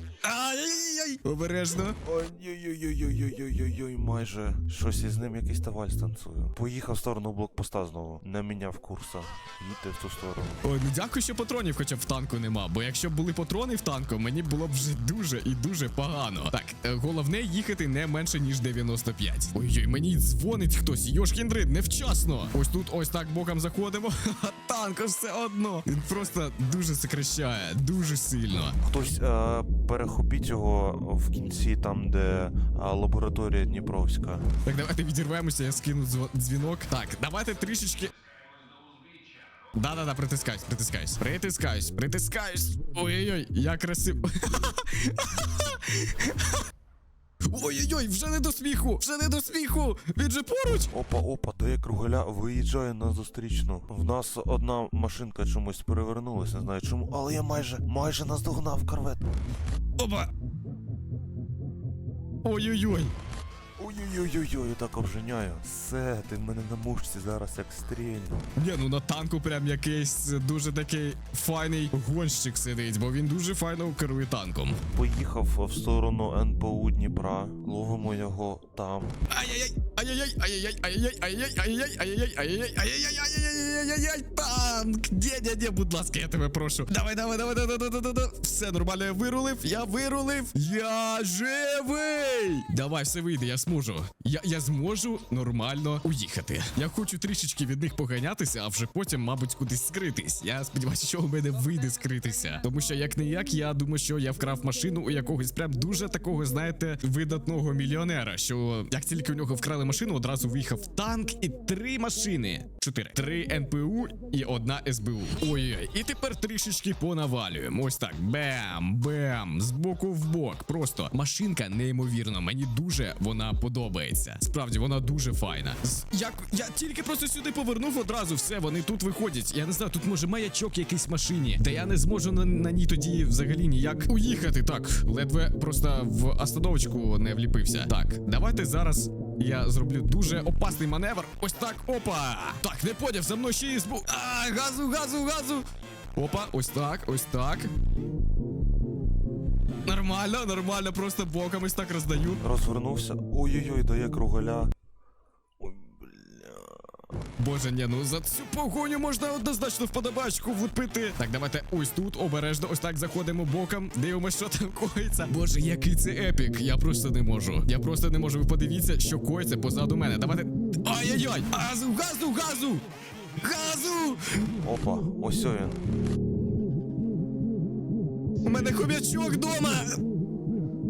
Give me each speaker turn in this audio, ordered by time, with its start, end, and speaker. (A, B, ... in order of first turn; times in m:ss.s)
0:00.2-0:02.0 A
0:02.0-0:10.6 B
0:10.6-0:28.8 A
0:28.8-0:34.4 B
0:34.6-0:38.1 A
0:39.7-0:46.5 A
0:47.4-0:50.9 A
0:50.9-0:59.2 B
1:00.0-1:00.3 A
1:02.4-1:03.1 A
1:03.8-1:08.4 B
1:08.6-1:14.8 A
1:14.9-1:19.2 B
1:19.3-2:25.6 A
2:26.2-2:27.7 A
2:29.8-2:32.4 A
2:32.4-2:34.7 B
2:35.6-2:36.9 B
2:37.4-2:52.8 A
2:53.4-2:54.5 A
2:54.6-2:55.8 B
2:58.4-3:00.0 A